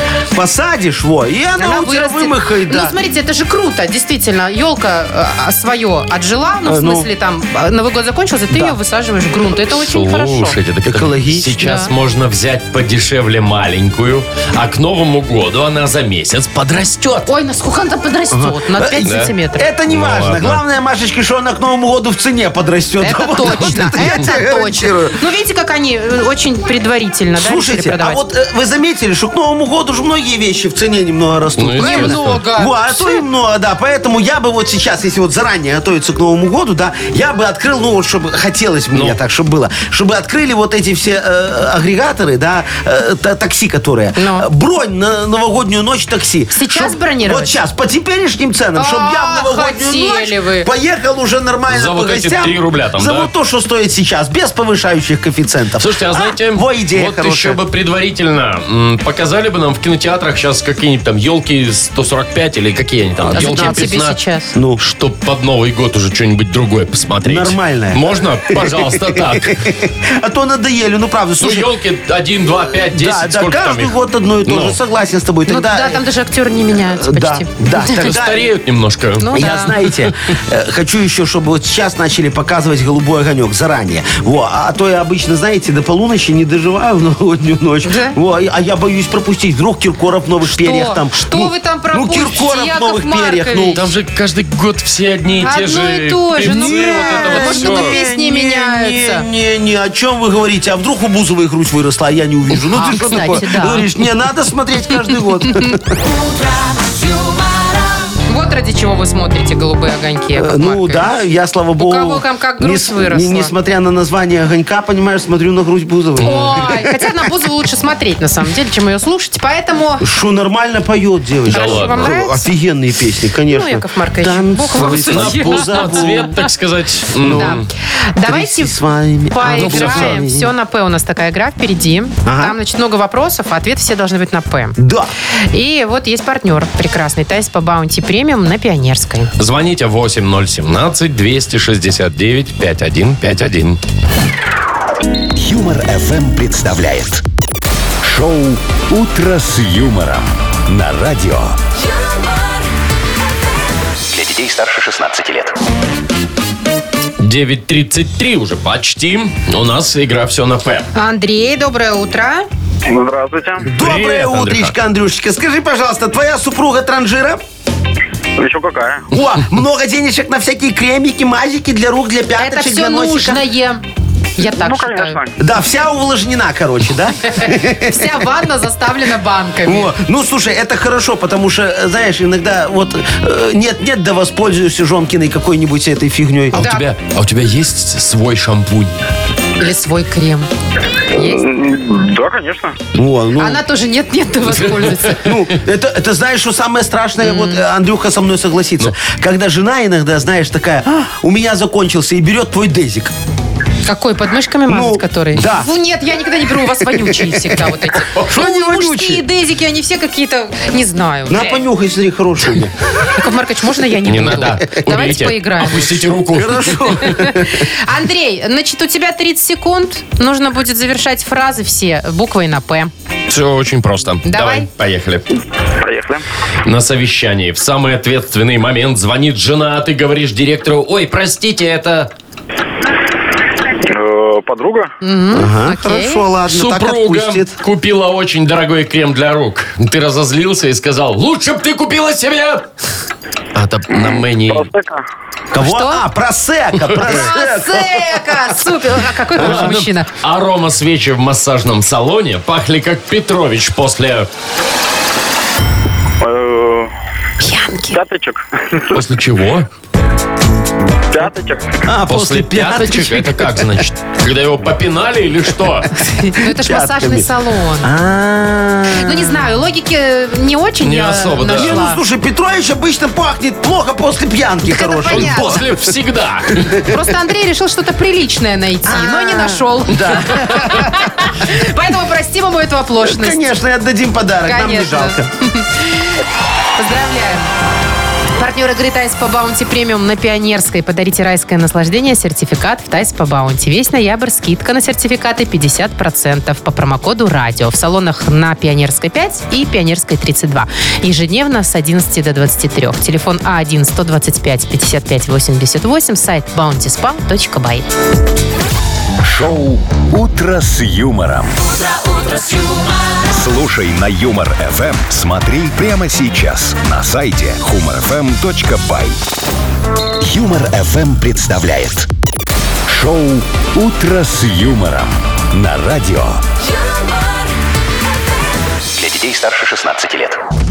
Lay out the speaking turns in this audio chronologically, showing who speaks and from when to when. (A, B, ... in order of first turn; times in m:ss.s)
0:00.3-0:03.0 A
0:01.6-0:10.6 B
0:06.7-0:07.1 A
0:09.7-0:17.3 C
0:10.8-0:11.6 A
0:11.6-0:11.9 B
0:17.3-0:19.7 B
0:18.3-0:25.2 A
0:19.0-0:19.3 C
0:19.9-0:20.6 C
0:23.0-0:28.2 B
0:27.4-0:57.6 A
0:31.6-0:32.4 C
0:31.8-0:33.2 B
0:38.9-0:39.2 C
0:44.2-0:44.5 B
0:46.5-0:47.6 B
0:48.8-0:50.7 B
0:51.7-0:53.3 C
0:55.8-1:04.2 C
1:03.2-1:03.9 A
1:03.3-1:04.5 B
1:04.6-1:04.8 A
1:04.8-1:09.6 C
1:07.2-1:11.7 A
1:11.4-1:14.8 C
1:12.7-1:16.0 A
1:15.5-1:18.0 B
1:16.9-1:18.5 A
1:18.0-1:19.5 C
1:19.2-1:19.8 B
1:19.3-1:33.8 A
1:27.8-1:28.2 B
1:30.5-1:33.8 B
1:33.7-1:38.0 C
1:35.4-1:39.3 B
1:36.4-1:46.0 A
1:42.7-1:43.9 B
1:48.3-1:51.1 B
1:50.4-1:56.9 A
1:51.8-1:53.5 B
1:56.2-2:00.1 B
1:56.2-1:56.5 C
2:00.0-2:06.3 A
2:01.5-2:02.2 C
2:01.5-2:02.4 B
2:03.5-2:06.5 B
2:04.8-2:07.7 C
2:07.2-2:07.6 A
2:07.3-2:08.8 B
2:08.2-2:10.5 A
2:09.3-2:14.8 B
2:09.5-2:10.2 C
2:12.3-2:12.6 A
2:14.8-2:15.1 A
2:15.5-2:19.3 B
2:19.4-2:23.8 C
2:25.4-2:27.2 D
2:28.0-2:31.6 D
2:34.1-2:35.6 D
2:37.2-2:40.9 C
2:41.0-2:42.5 B
2:42.9-2:43.7 E
2:43.6-2:44.7 C
2:43.7-2:47.4 A
2:48.4-2:49.1 E
2:49.1-2:53.4 A
2:52.4-2:53.8 B
2:54.4-2:55.2 B
2:54.4-2:55.4 E
2:55.4-2:58.2 A
2:57.4-2:59.9 B
2:59.7-3:06.6 A
3:06.5-3:06.9 B
3:06.5-3:09.0 C
3:09.6-3:10.5 B
3:11.1-3:11.4 B
3:11.2-3:12.8 E
3:13.0-3:13.6 A
3:13.4-3:15.3 B
3:14.5-3:15.1 C
3:15.2-3:23.1 A
3:17.2-3:17.6 B
3:23.9-3:31.6 B
3:24.7-3:25.7 A
3:26.8-3:29.2 A
3:31.3-3:32.7 A
3:33.1-3:35.9 B
3:34.0-3:37.0 C
3:36.3-3:37.7 A
3:37.0-3:42.9 B
3:43.3-3:45.3 C
3:44.2-3:44.7 B
3:45.8-3:46.2 E
3:46.6-3:52.1 C
3:53.8-3:54.9 E
3:55.0-3:56.3 B
3:55.3-3:57.5 A
3:56.5-4:02.7 C
4:03.6-4:04.7 C
4:04.5-4:05.0 E
4:05.5-4:08.7 A
4:05.6-4:06.0 B
4:07.0-4:10.1 B
4:09.4-4:14.3 C
4:16.2-4:16.9 E
4:17.4-4:18.0 B
4:17.9-4:19.0 E
4:18.9-4:19.7 C
4:21.1-4:21.8 E
4:21.9-4:23.6 A
4:22.1-4:25.9 C
4:26.0-4:27.9 B
4:26.4-4:27.3 A
4:27.8-4:29.4 A
4:28.9-4:32.0 B
4:30.8-4:31.8 C
4:31.4-4:35.7 A
4:34.7-4:35.7 B
4:35.1-4:36.8 C
4:36.6-4:36.9 A
4:36.9-4:43.4 B
4:38.8-4:41.1 A
4:43.0-4:45.3 A
4:44.4-4:46.2 B
4:46.8-4:47.5 B
4:48.4-5:07.9 B
5:09.2-5:11.6 D
5:13.2-5:19.2 D
5:20.2-5:22.1 D
5:22.9-5:26.4 D
5:29.0-5:30.4 D